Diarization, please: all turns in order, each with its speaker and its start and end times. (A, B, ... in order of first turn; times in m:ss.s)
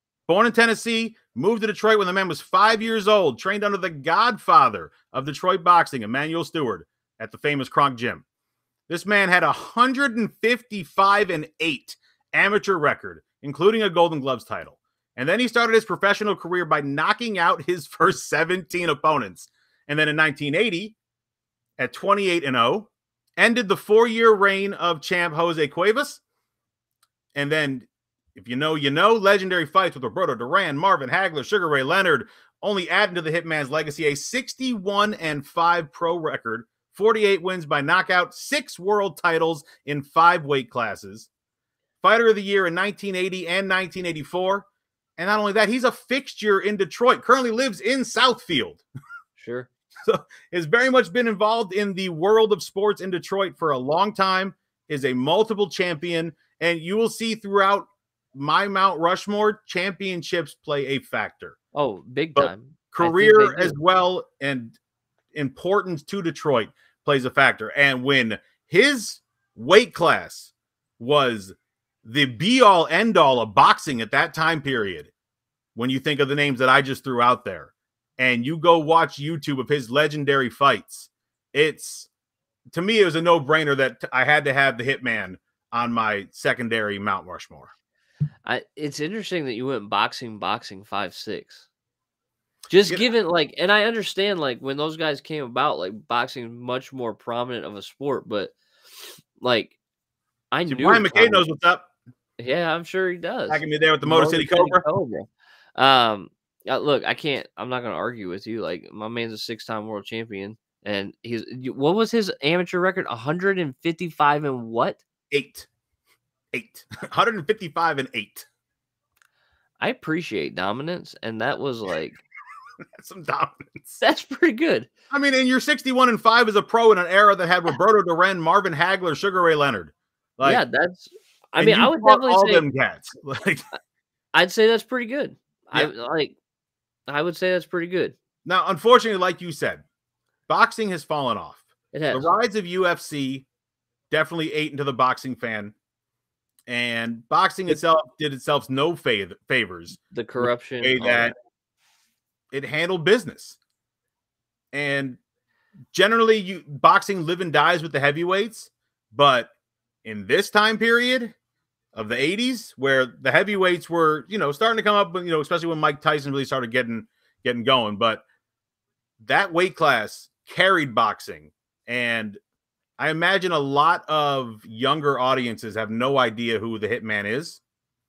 0:00.3-0:08.2 A
0:08.9-0:21.0 A
0:21.8-0:26.2 A
0:27.3-0:41.3 A
0:42.0-0:44.7 A
0:45.2-0:48.8 A
0:49.4-0:49.7 B
0:50.0-1:01.6 A
1:01.7-1:03.8 B
1:02.3-1:04.8 A
1:05.3-1:15.1 A
1:15.7-1:22.1 A
1:22.7-1:27.7 A
1:28.4-1:31.7 B
1:32.7-1:39.8 B
1:40.5-1:41.4 B
1:40.7-1:41.9 A
1:42.4-1:55.0 B
1:43.5-1:44.8 A
1:55.3-1:55.7 A
1:56.5-1:58.4 A
1:59.8-2:02.2 B
2:03.0-2:03.9 A
2:04.0-2:04.9 B
2:05.1-2:10.6 A
2:10.4-2:12.6 B
2:11.6-2:13.7 A
2:14.3-2:16.4 B
2:17.1-2:18.1 B
2:18.4-2:19.8 A
2:20.5-2:23.4 A
2:21.9-2:22.3 B
2:24.1-2:25.7 A
2:26.7-2:31.3 A
2:30.1-2:31.3 B
2:32.5-2:33.6 A
2:34.7-2:35.2 A
2:35.9-2:39.5 A
2:40.0-2:41.3 A
2:41.9-2:48.2 A
2:49.2-2:52.4 A
2:53.0-2:57.6 A